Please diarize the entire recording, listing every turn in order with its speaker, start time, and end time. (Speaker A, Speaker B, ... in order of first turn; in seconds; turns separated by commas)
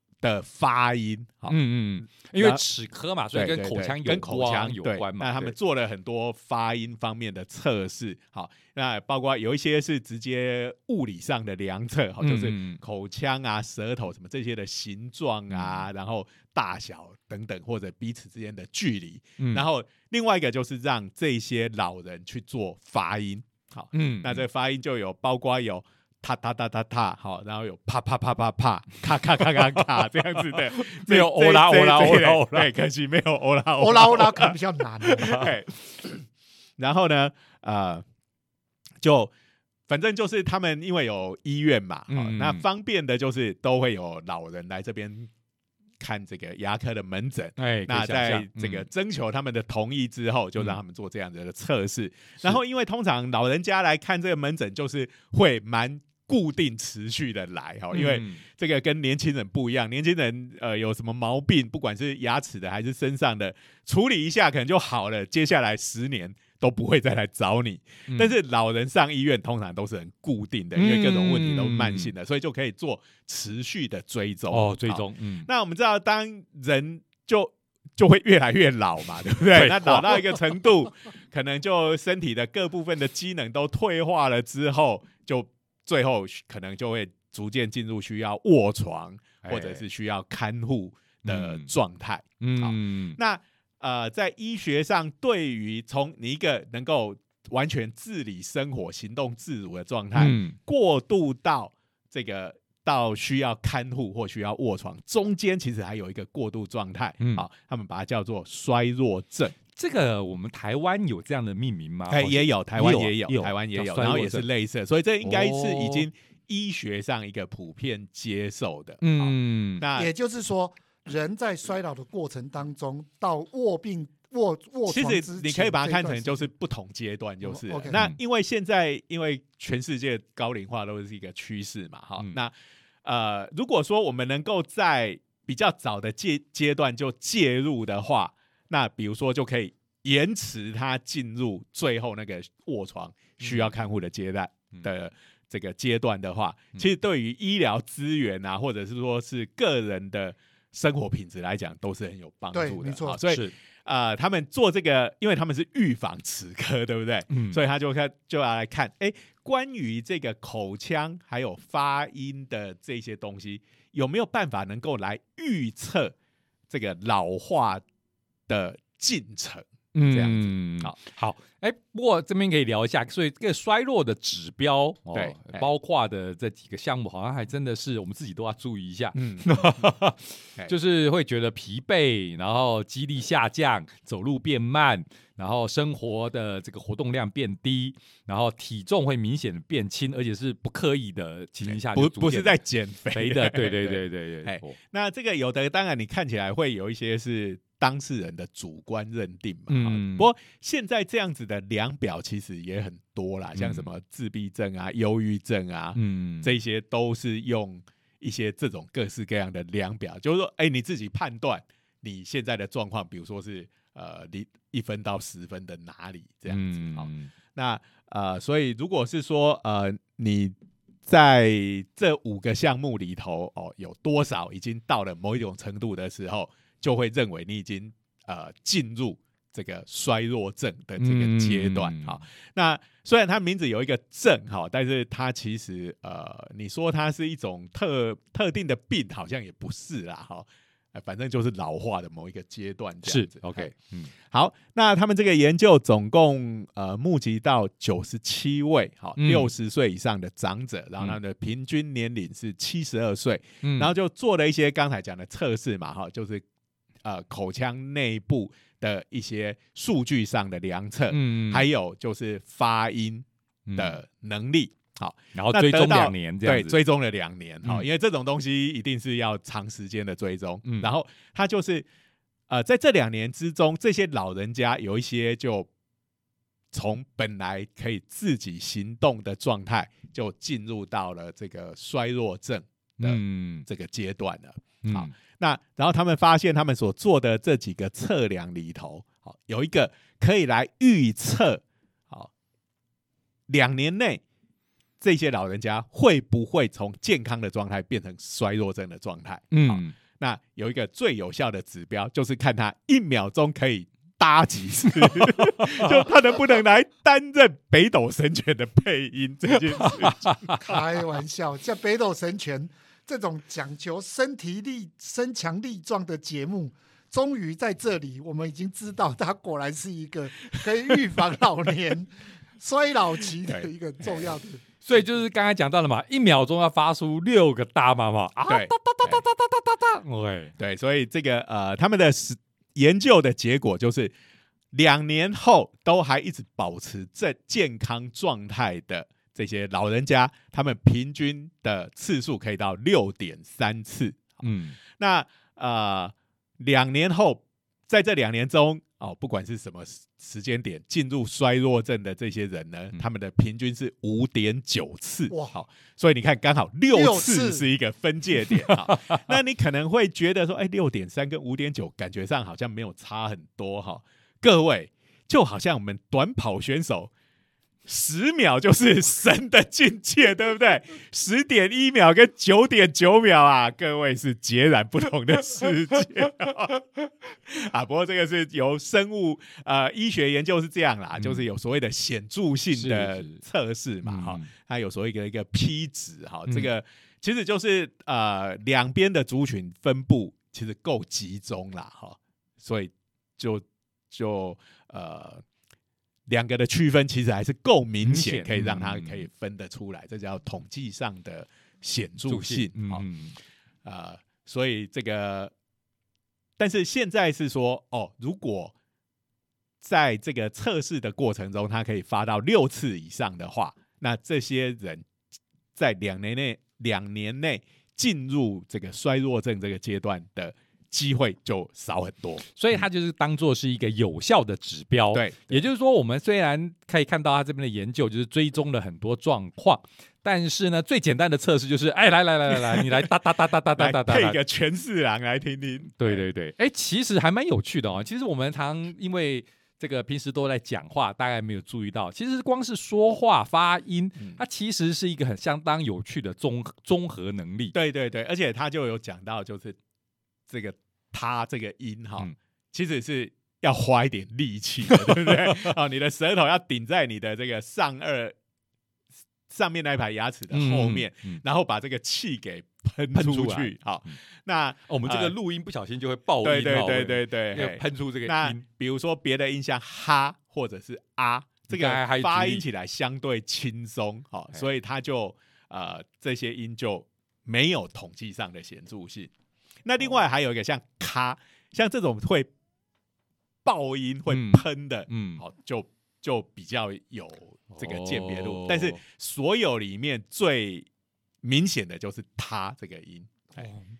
Speaker A: 0.2-1.6, Speaker B: 1.5-5.5, Speaker A: 2.2-2.6, Speaker A: 3.3-36.3, Speaker B: 12.2-12.8, Speaker B: 15.5-15.9, Speaker B: 19.4-19.6, Speaker B: 23.9-24.4, Speaker B: 30.5-32.7, Speaker C: 33.8-35.5, Speaker A: 36.8-38.0, Speaker A: 39.0-39.3, Speaker A: 39.9-45.3, Speaker B: 42.1-42.6, Speaker A: 46.0-109.6, Speaker B: 47.6-48.9, Speaker B: 57.9-58.4, Speaker B: 68.1-68.3, Speaker B: 70.8-72.1, Speaker B: 74.5-75.5, Speaker B: 79.5-80.4, Speaker B: 89.4-89.8, Speaker B: 91.2-91.7, Speaker B: 92.4-93.2, Speaker B: 100.2-100.6, Speaker B: 107.2-107.5, Speaker B: 109.7-114.5, Speaker A: 112.1-120.1, Speaker B: 115.2-116.1, Speaker B: 119.0-119.9, Speaker C: 119.9-126.5, Speaker A: 124.9-132.5, Speaker C: 127.4-128.0, Speaker B: 127.9-128.2, Speaker A: 133.0-166.2, Speaker B: 143.4-143.7, Speaker C: 152.5-153.2, Speaker B: 153.3-153.5, Speaker B: 157.3-157.6, Speaker A: 166.7-167.8, Speaker A: 168.5-171.0, Speaker B: 169.9-192.6, Speaker A: 175.1-175.7, Speaker A: 179.2-179.8, Speaker A: 191.6-220.6, Speaker B: 193.1-194.8, Speaker B: 199.7-200.3, Speaker B: 203.6-203.9, Speaker B: 205.9-206.5, Speaker B: 216.5-217.3, Speaker A: 221.1-243.7, Speaker B: 231.0-232.2, Speaker B: 243.1-244.1, Speaker A: 244.3-256.4, Speaker B: 249.2-249.5, Speaker B: 253.6-253.9, Speaker A: 257.0-271.9, Speaker B: 261.1-261.7, Speaker B: 263.7-264.0, Speaker B: 265.3-266.8, Speaker A: 272.5-275.7, Speaker A: 276.7-292.3, Speaker B: 283.0-283.7, Speaker B: 284.8-285.1, Speaker A: 293.5-294.2, Speaker A: 295.0-310.8, Speaker B: 299.5-300.0, Speaker B: 305.0-305.3, Speaker B: 309.7-310.6, Speaker C: 310.6-324.6, Speaker B: 324.8-330.5, Speaker A: 328.5-329.2, Speaker A: 330.6-334.1, Speaker A: 334.7-367.1, Speaker B: 344.4-344.8, Speaker C: 355.3-355.6, Speaker C: 356.9-357.6, Speaker B: 358.7-359.2, Speaker A: 367.9-395.4, Speaker B: 381.2-381.4, Speaker B: 382.7-383.4, Speaker B: 384.0-384.5, Speaker A: 396.3-403.1, Speaker B: 398.0-399.3, Speaker B: 402.3-403.4, Speaker A: 403.8-405.5, Speaker A: 406.6-408.7, Speaker A: 409.8-415.1, Speaker A: 415.8-422.4, Speaker B: 422.6-434.4, Speaker A: 425.1-425.6, Speaker A: 433.8-436.2, Speaker B: 436.0-447.7, Speaker A: 447.7-449.8, Speaker A: 450.5-458.4, Speaker B: 455.0-455.6, Speaker A: 459.5-465.4, Speaker B: 460.5-461.4, Speaker B: 463.1-464.1, Speaker B: 464.9-468.6, Speaker A: 466.4-479.3, Speaker B: 471.7-472.6, Speaker A: 479.9-482.5, Speaker A: 483.7-490.9, Speaker B: 484.3-485.4, Speaker B: 487.7-489.0, Speaker A: 491.4-493.6, Speaker C: 493.6-493.9